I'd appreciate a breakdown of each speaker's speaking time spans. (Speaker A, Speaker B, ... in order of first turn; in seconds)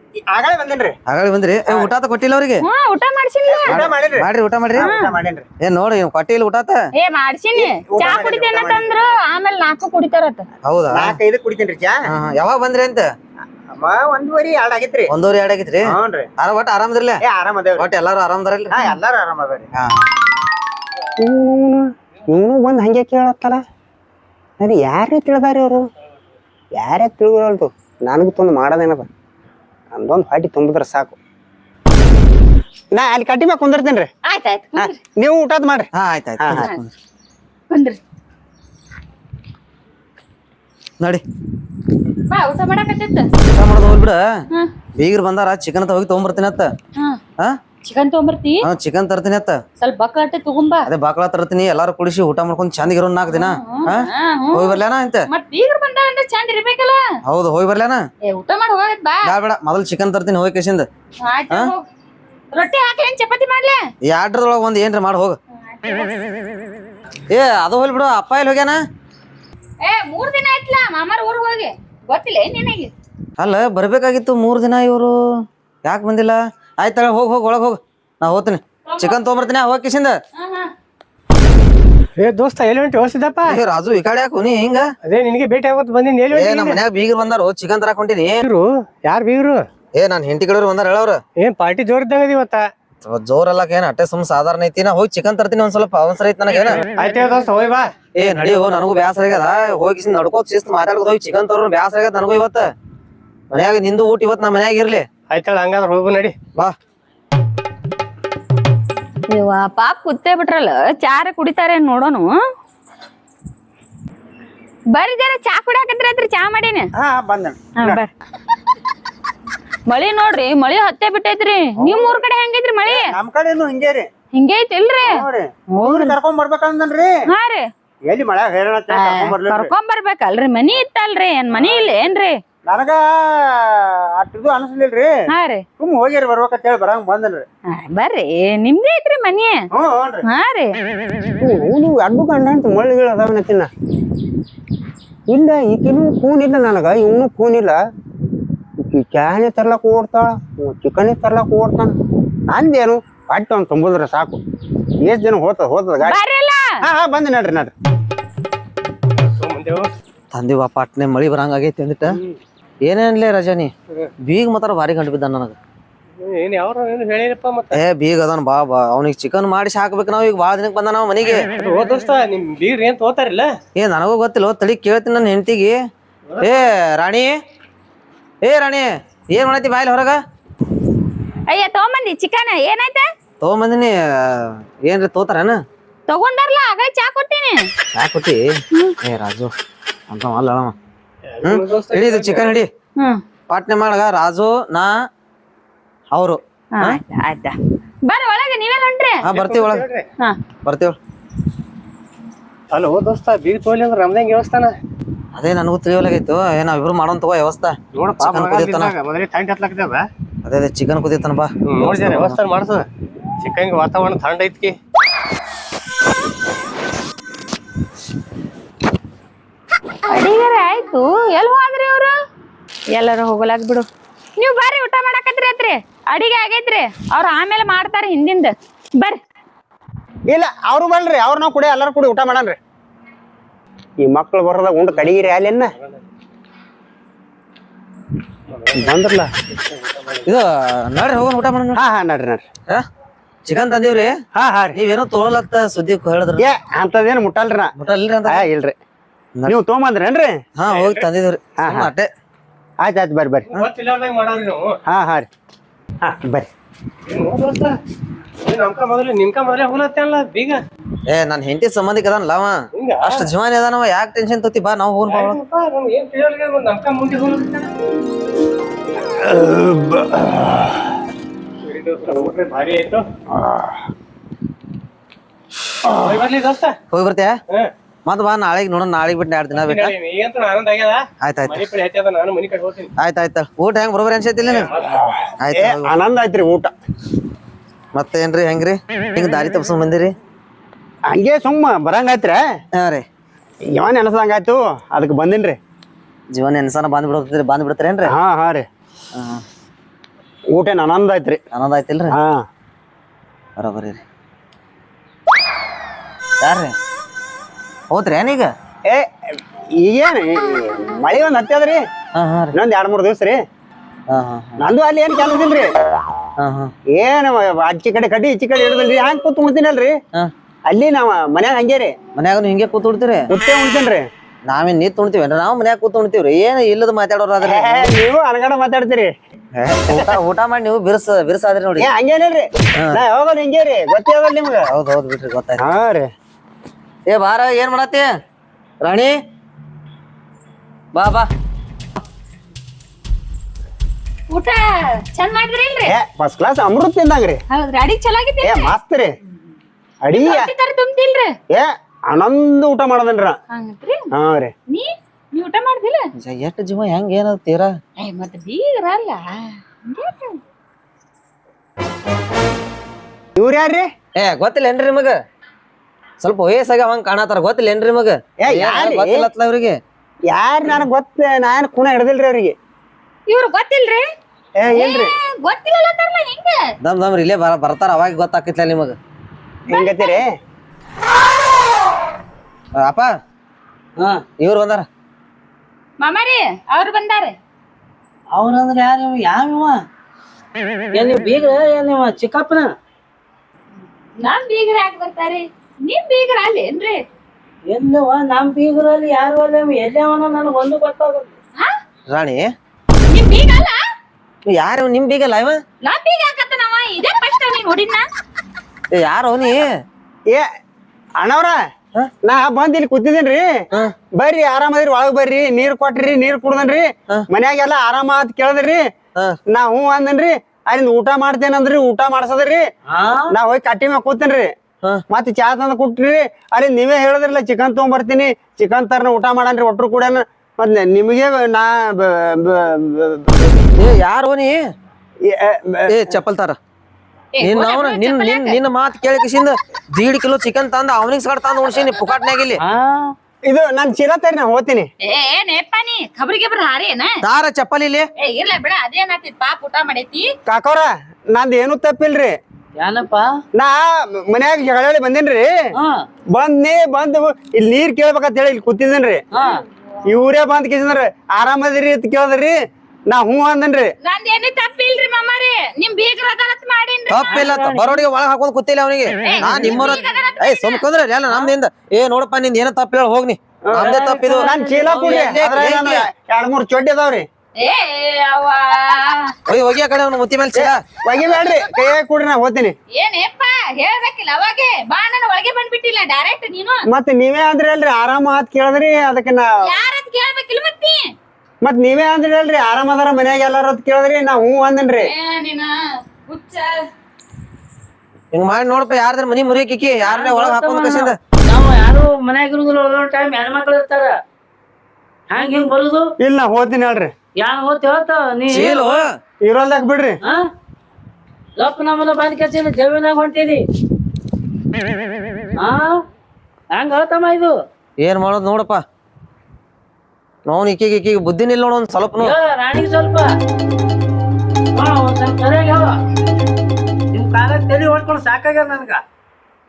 Speaker A: 0.3-1.0, 3.5-5.5, 7.5-8.8, 10.9-12.0, 13.7-15.1, 15.9-16.3, 17.2-17.9, 18.7-19.7, 21.2-23.6, 24.6-25.9, 26.7-29.1, 29.9-31.1, 32.9-34.1, 34.8-35.9, 36.4-36.7, 117.0-118.0, 121.8-122.1, 122.9-124.1, 125.0-127.1, 128.1-129.7, 131.5-131.9, 132.6-135.1, 135.8-137.4, 139.7-140.2, 141.4-143.7, 145.3-147.8, 148.8-152.0, 152.5-154.4, 155.0-156.2, 156.8-157.7, 230.3-232.6, 234.0-235.7, 238.7-239.3, 241.7-242.4, 244.3-244.8, 246.4-247.7, 248.3-248.7, 249.5-250.4, 251.6-251.9, 252.8-253.5, 254.9-255.3, 256.0-256.5, 269.2-270.8, 273.3-273.7, 284.8-286.7, 291.1-292.4, 293.7-295.6, 298.1-298.6, 300.5-301.4, 302.1-302.4, 308.9-311.8, 312.5-313.4, 314.6-315.7, 316.9-320.0, 320.6-321.9, 323.3-324.1, 327.4-329.1, 331.8-334.7, 335.6-336.1, 345.9-347.4, 348.4-349.1, 350.0-350.5, 351.5-353.4, 354.1-354.5, 363.4-363.9, 368.4-369.3, 370.3-372.6, 374.6-375.1, 379.7-380.3, 411.2-411.6, 412.2-418.9, 419.5-422.6, 423.3-424.5, 425.1-433.5, 435.2-436.1, 443.4-444.9, 450.5-452.4, 453.5-455.7, 456.3-459.2, 460.1-463.9, 473.6-477.3, 480.5-482.7, 486.9-489.7, 491.6-495.1, 506.2-507.1, 509.4-510.2
Speaker B: 1.1-2.6, 3.7-4.8, 5.6-6.8, 10.6-11.2, 12.1-13.1, 15.1-17.2, 17.8-18.9, 19.7-20.1, 35.9-36.9, 43.4-44.2, 45.0-46.7, 48.6-49.6, 50.9-55.2, 57.3-58.0, 59.2-60.9, 64.1-65.4, 67.3-68.8, 73.4-75.1, 75.8-80.2, 83.4-84.8, 86.3-88.4, 90.0-91.2, 93.0-96.8, 98.1-102.6, 103.5-105.0, 160.3-162.2, 162.8-165.6, 167.7-171.5, 173.8-175.8, 176.4-177.3, 178.4-180.2, 183.4-185.6, 187.9-189.5, 190.1-190.7, 191.4-192.7, 193.5-194.9, 196.1-197.0, 199.2-199.8, 200.6-200.9, 205.3-208.9, 210.4-212.4, 240.2-241.8, 243.4-244.1, 244.7-246.4, 247.8-248.4, 250.6-252.1, 261.1-265.4, 276.9-277.3, 278.0-279.9, 281.2-281.6, 283.0-284.7, 285.4-285.9, 287.9-290.1, 292.7-293.0, 296.3-298.1, 299.1-299.4, 301.5-302.1, 303.6-304.0, 306.4-306.7, 307.9-308.5, 312.1-312.5, 314.1-314.6, 316.4-316.7, 322.1-323.3, 324.4-327.9, 329.6-331.9, 334.6-335.6, 337.1-338.1, 338.8-339.1, 340.9-341.3, 356.2-357.7, 364.1-365.2, 366.2-369.8, 376.8-378.9, 382.8-383.1, 384.4-384.9, 402.1-402.5, 404.4-405.6, 408.9-409.7, 433.8-434.6, 435.9-436.6, 437.4-442.6, 447.2-448.1, 467.1-474.5, 475.1-476.0, 479.5-480.8, 498.3-501.1, 508.5-509.1, 518.0-518.8, 520.5-522.3
Speaker C: 2.6-3.8, 4.8-5.1, 7.0-10.4, 34.2-35.0, 36.5-36.8, 37.7-38.0, 42.3-43.3, 47.8-48.6, 49.8-50.9, 53.3-57.0, 58.2-59.3, 61.2-61.9, 62.5-63.8, 65.7-66.2, 69.8-72.9, 78.9-79.3, 80.3-80.7, 109.3-112.4, 114.9-116.9, 117.8-118.1, 119.9-123.1, 124.3-125.2, 125.7-126.2, 127.3-127.7, 128.9-132.4, 135.3-135.6, 137.7-139.6, 140.2-140.7, 156.0-156.7, 181.5-183.1, 186.1-187.7, 196.7-199.2, 220.1-222.1, 222.9-229.2, 344.3-345.9, 347.5-348.7, 350.1-351.3, 353.5-354.1, 354.7-356.1, 358.0-360.4, 373.3-374.1, 374.7-376.6, 379.7-380.2, 386.0-387.4, 394.2-397.0, 403.1-403.8, 405.8-408.0, 437.3-438.6, 445.0-447.2, 448.2-450.3, 464.0-467.4, 469.2-470.8, 477.6-479.3, 481.4-481.9, 482.9-486.8, 489.6-491.1, 495.0-496.9
Speaker D: 82.2-83.6, 85.0-86.8, 88.4-89.7, 91.4-92.7, 96.8-97.9, 105.3-106.3, 159.2-159.9, 166.2-167.8, 171.3-173.5, 191.4-192.5, 199.3-200.1, 202.7-204.8, 207.9-210.1, 211.7-212.9, 213.4-214.8, 239.8-240.1, 253.6-254.8, 257.1-257.8, 258.4-260.6, 262.7-263.3, 265.1-267.7, 271.6-273.1, 276.0-276.8, 279.6-282.9
Speaker E: 384.0-384.2, 388.3-389.8, 390.9-392.7, 397.7-401.3, 422.9-423.3, 442.6-443.1, 452.8-453.3, 455.8-456.0, 459.3-459.6, 467.2-468.0, 473.7-475.4, 500.0-504.1, 505.3-506.1, 507.4-509.0, 511.6-513.6, 515.6-516.0, 516.7-517.5, 522.2-523.3, 524.7-525.9, 527.1-529.0